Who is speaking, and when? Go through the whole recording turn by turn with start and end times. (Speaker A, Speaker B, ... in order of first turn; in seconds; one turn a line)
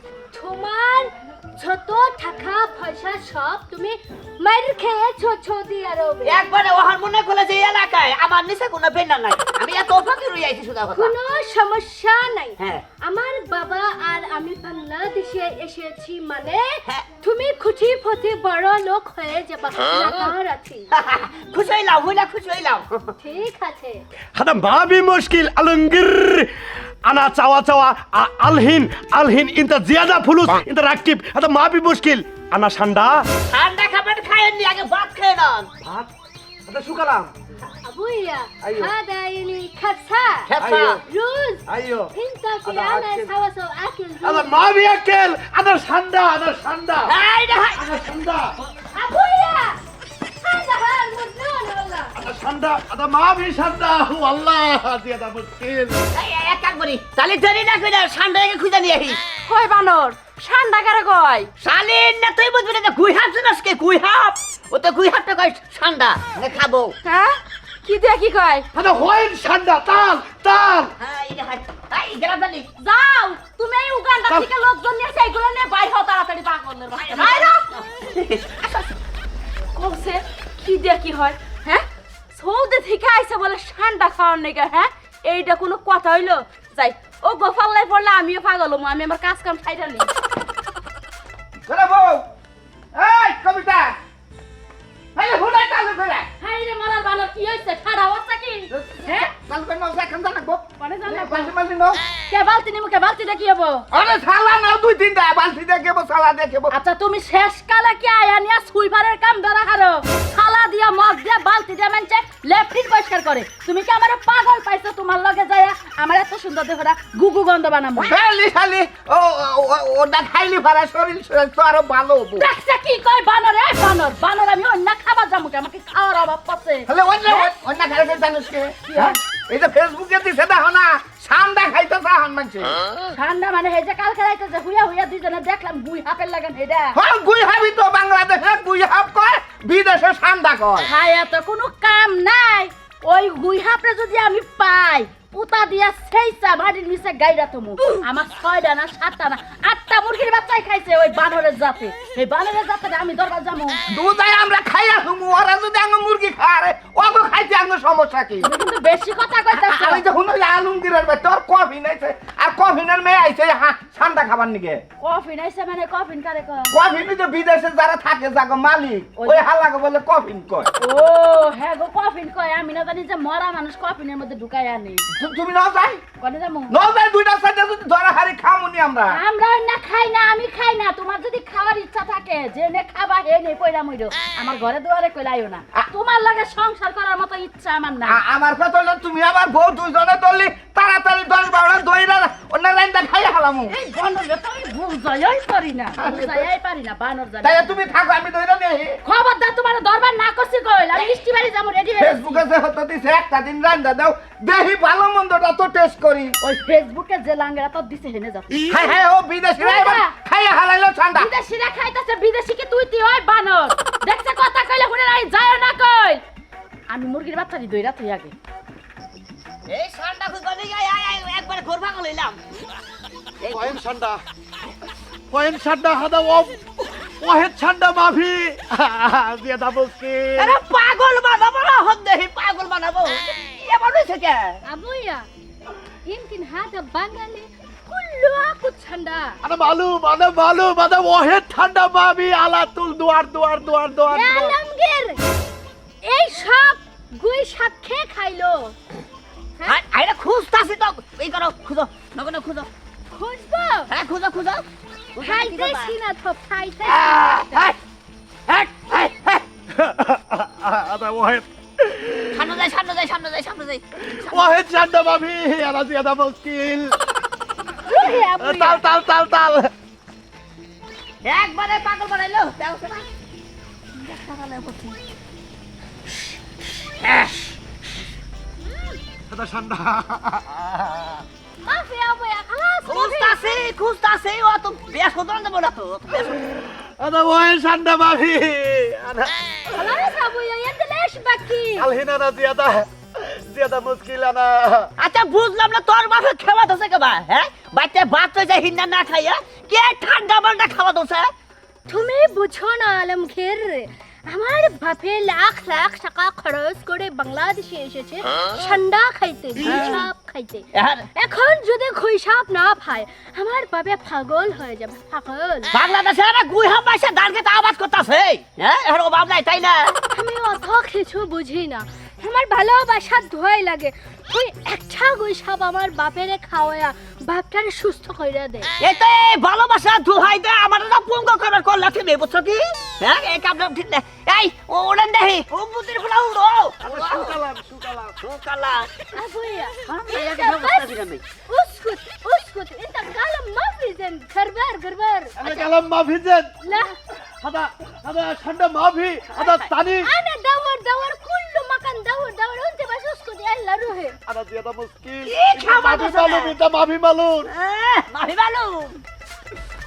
Speaker A: 0.3-6.4
Speaker B: 6.2-11.1
Speaker A: 10.9-20.9
Speaker B: 12.6-12.8
Speaker B: 20.9-23.1
Speaker A: 23.2-24.0
Speaker C: 24.3-26.5
Speaker C: 27.1-33.2
Speaker B: 33.4-35.7
Speaker C: 35.8-36.1
Speaker C: 36.7-37.3
Speaker A: 37.8-40.5
Speaker C: 38.6-38.9
Speaker B: 40.5-41.0
Speaker C: 40.6-41.0
Speaker A: 41.0-44.6
Speaker C: 41.7-42.1
Speaker C: 42.6-43.3
Speaker C: 44.2-47.1
Speaker B: 47.0-47.8
Speaker C: 47.8-48.5
Speaker A: 48.9-49.8
Speaker A: 50.4-52.1
Speaker C: 52.1-56.0
Speaker B: 56.1-59.2
Speaker D: 59.5-61.5
Speaker B: 61.6-66.9
Speaker D: 67.0-68.7
Speaker C: 68.8-70.9
Speaker B: 71.0-72.7
Speaker D: 72.8-77.7
Speaker B: 77.0-78.9
Speaker D: 79.8-90.1
Speaker E: 91.7-92.2
Speaker E: 92.9-94.0
Speaker E: 95.1-96.3
Speaker D: 96.4-99.3
Speaker E: 98.7-102.0
Speaker D: 100.8-101.5
Speaker D: 102.3-103.9
Speaker E: 103.9-106.7
Speaker D: 106.7-118.1
Speaker E: 118.0-122.5
Speaker D: 122.4-127.5
Speaker E: 126.9-132.8
Speaker D: 128.8-129.2
Speaker D: 133.1-137.0
Speaker E: 136.9-140.9
Speaker D: 140.8-153.8
Speaker E: 153.9-158.5
Speaker D: 158.4-160.0
Speaker E: 159.5-164.8
Speaker D: 165.0-166.8
Speaker E: 166.7-170.7
Speaker D: 169.2-169.4
Speaker D: 170.8-175.1
Speaker E: 175.2-176.0
Speaker D: 176.2-176.8
Speaker E: 176.7-179.2
Speaker D: 179.1-188.2
Speaker E: 188.0-193.8
Speaker D: 193.7-197.7
Speaker E: 196.0-196.4
Speaker E: 197.4-199.0
Speaker D: 199.0-202.4
Speaker E: 202.0-206.4
Speaker D: 206.4-208.8
Speaker E: 208.7-211.3
Speaker D: 209.6-210.1
Speaker D: 211.1-216.2
Speaker D: 216.9-218.3
Speaker B: 219.7-222.4
Speaker B: 223.4-223.8
Speaker C: 223.5-224.2
Speaker C: 225.3-226.6
Speaker C: 227.2-230.6
Speaker B: 230.4-234.6
Speaker A: 234.6-235.2
Speaker A: 236.1-239.4
Speaker C: 239.4-244.6
Speaker A: 244.1-245.2
Speaker A: 246.0-248.8
Speaker B: 249.6-252.7
Speaker A: 253.1-253.9
Speaker B: 253.9-254.6
Speaker B: 255.1-255.9
Speaker A: 255.2-257.6
Speaker B: 256.9-257.8
Speaker B: 258.5-259.4
Speaker C: 259.7-262.6
Speaker B: 262.3-264.5
Speaker C: 264.1-267.0
Speaker A: 267.9-268.8
Speaker C: 267.9-269.7
Speaker B: 271.2-273.1
Speaker B: 274.0-275.0
Speaker B: 277.0-277.3
Speaker C: 279.3-281.2
Speaker A: 281.6-283.6
Speaker B: 282.9-286.4
Speaker C: 286.8-290.0
Speaker A: 289.7-291.9
Speaker C: 291.6-294.9
Speaker B: 295.0-301.3
Speaker A: 301.9-315.7
Speaker B: 309.6-310.0
Speaker B: 310.7-311.1
Speaker B: 315.7-320.0
Speaker A: 320.1-328.7
Speaker B: 328.8-337.4
Speaker C: 336.8-338.1
Speaker B: 338.2-339.0
Speaker A: 339.1-340.9
Speaker B: 339.9-341.2
Speaker A: 341.5-345.6
Speaker C: 345.4-346.8
Speaker A: 346.6-346.9
Speaker C: 347.4-350.1
Speaker B: 349.4-349.7
Speaker A: 350.0-354.1
Speaker C: 354.2-357.5
Speaker B: 355.2-356.6
Speaker B: 357.5-359.0